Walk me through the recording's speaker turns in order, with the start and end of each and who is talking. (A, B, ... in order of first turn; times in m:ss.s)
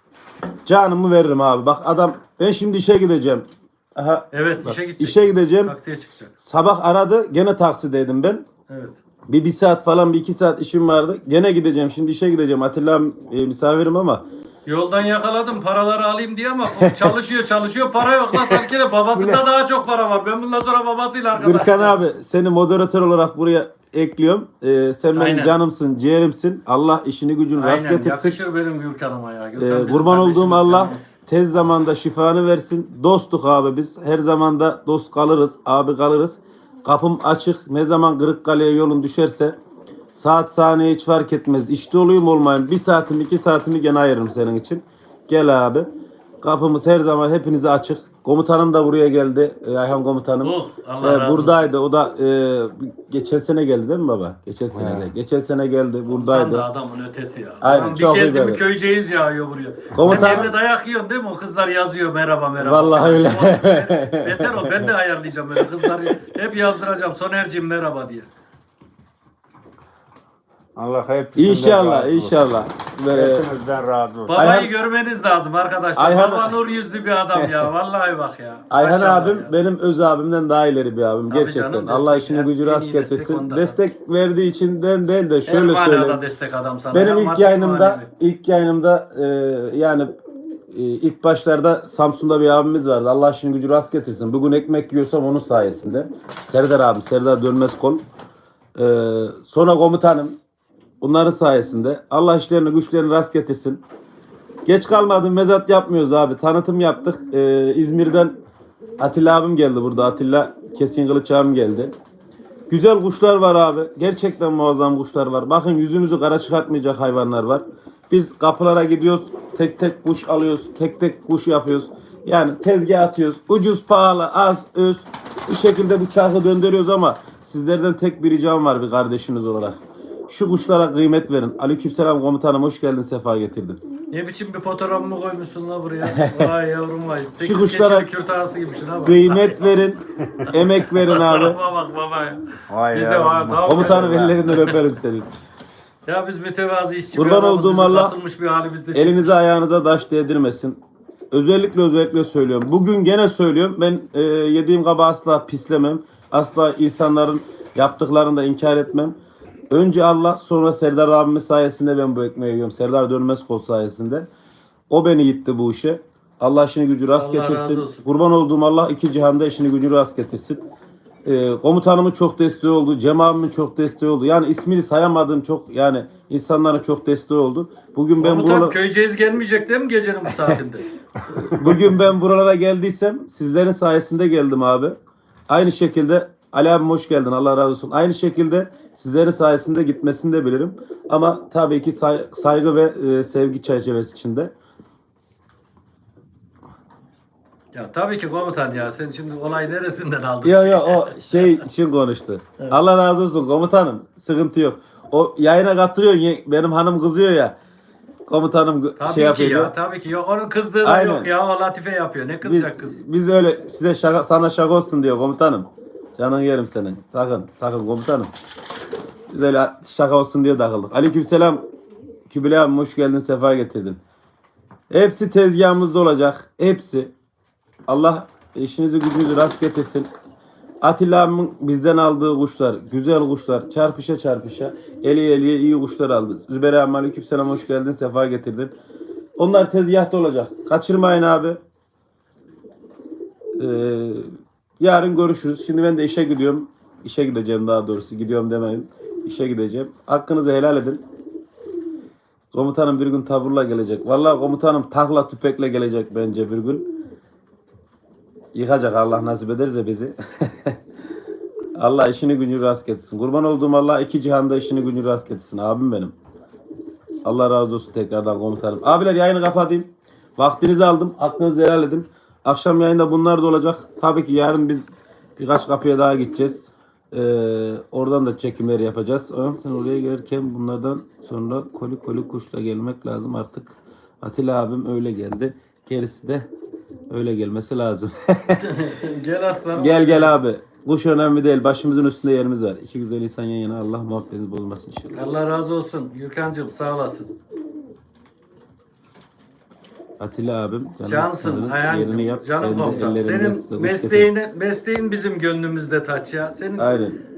0:00.6-0:05.7 A
0:04.3-0:06.3 B
0:06.4-0:08.4 A
0:08.7-0:09.0 B
0:09.3-0:14.2 A
0:14.6-0:22.0 B
0:16.7-0:17.2 A
0:18.3-0:19.4 A
0:21.4-0:28.4 A
0:25.1-0:25.6 B
0:27.6-0:31.1 B
0:29.6-0:39.5 A
0:40.1-0:45.9 A
0:46.4-0:56.7 A
0:50.4-0:51.7 B
0:54.7-0:55.1 C
0:56.1-1:08.3 B
0:57.6-0:58.6 A
0:59.9-1:00.5 A
1:02.6-1:04.9 A
1:05.5-1:06.1 A
1:10.8-1:12.3 C
1:11.4-1:13.5 A
1:13.1-1:14.4 C
1:14.3-1:19.5 B
1:14.3-1:14.7 A
1:16.0-1:16.5 A
1:17.3-1:17.7 A
1:18.7-1:26.2 A
1:21.3-1:23.8 B
1:25.4-1:28.1 B
1:26.9-1:30.1 A
1:30.7-1:38.0 A
1:38.7-1:40.4 A
1:41.0-1:43.8 A
1:44.6-1:48.3 A
1:49.0-1:51.9 A
1:52.7-2:13.8 A
2:14.1-2:19.6 B
2:16.0-2:16.5 A
2:17.4-2:18.1 A
2:19.0-2:21.6 A
2:21.0-2:24.8 B
2:22.7-2:24.4 C
2:23.6-2:25.3 A
2:26.0-2:29.4 B
2:27.1-2:28.2 A
2:28.9-2:30.8 A
2:31.3-2:39.2 A
2:39.7-2:44.3 A
2:44.9-2:50.6 A
2:47.1-2:48.0 B
2:51.2-2:58.8 A
2:58.2-3:00.9 B
3:00.3-3:00.6 A
3:01.4-3:04.9 A
3:05.5-3:14.5 A
3:17.7-3:21.6 B
3:20.4-3:27.6 A
3:28.2-3:29.7 A
3:29.0-3:33.0 B
3:30.8-3:31.3 A
3:32.4-3:38.3 A
3:39.3-3:41.6 A
3:42.3-3:44.0 A
3:44.9-3:47.1 A
3:47.9-3:50.1 A
3:50.8-3:58.7 A
3:59.4-4:01.6 A
4:03.6-4:11.0 A
4:12.5-4:16.9 A
4:18.5-4:20.8 A
4:21.8-4:26.1 A
4:27.2-4:46.5 A
4:47.1-4:48.7 A
4:48.5-4:50.4 B
4:49.7-4:55.2 A
4:55.1-4:57.3 B
5:00.2-5:04.3 A
5:01.0-5:06.9 B
5:06.8-5:07.2 A